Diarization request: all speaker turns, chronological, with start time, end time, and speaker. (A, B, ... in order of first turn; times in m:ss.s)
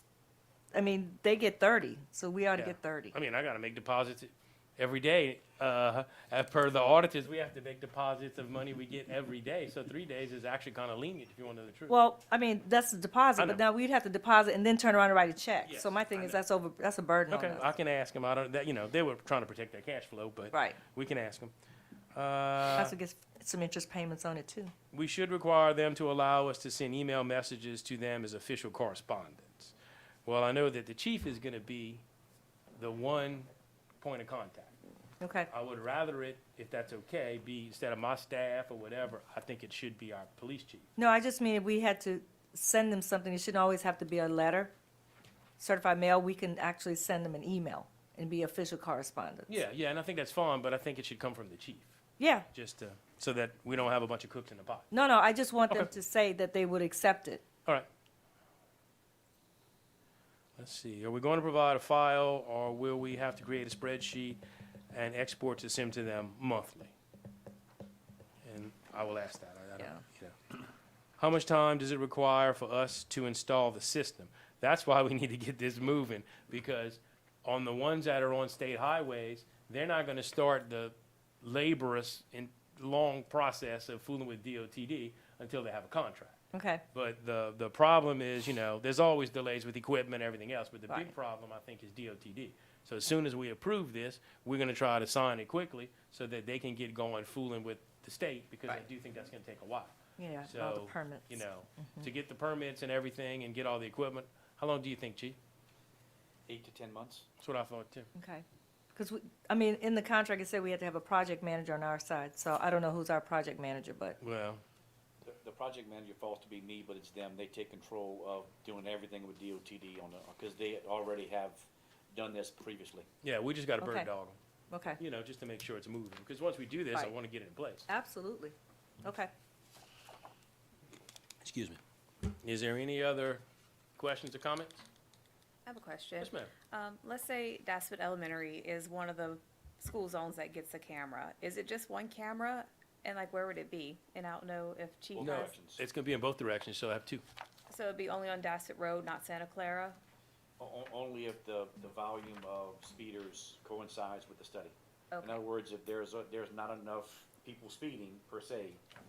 0:00.7-0:03.1 A
0:02.6-0:12.0 B
0:11.9-0:17.7 A
0:15.6-0:16.4 B
0:17.3-0:21.5 B
0:20.5-0:20.8 A
0:22.1-0:23.0 B
0:22.7-0:24.7 A
0:24.9-0:29.7 B
0:30.2-0:32.0 B
0:32.7-0:33.5 B
0:34.0-0:34.7 B
0:35.2-0:35.5 A
0:35.5-0:40.9 B
0:41.0-0:44.7 A
0:45.6-0:49.6 A
0:49.5-0:52.0 B
0:52.2-0:52.5 A
0:52.5-0:54.9 B
0:54.9-0:57.4 A
1:00.6-1:04.4 B
1:04.9-1:06.9 B
1:08.4-1:10.4 B
1:11.2-1:26.4 B
1:26.5-1:26.8 A
1:26.9-1:39.9 B
1:40.2-1:42.1 A
1:40.4-1:45.4 B
1:46.5-1:47.2 C
1:47.4-1:48.1 B
1:48.1-1:54.2 A
1:54.2-1:54.6 B
1:55.2-2:03.1 C
2:03.2-2:04.4 B
2:03.8-2:04.1 A
2:04.7-2:05.0 A
2:05.0-2:07.9 B
2:07.9-2:09.3 A
2:11.4-2:11.8 B
2:12.4-2:13.4 B
2:14.0-2:14.8 B
2:15.7-2:25.4 D
2:16.2-2:16.5 B
2:25.2-2:25.8 C
2:25.2-2:27.2 B
2:27.7-2:30.0 D
2:30.6-2:38.8 C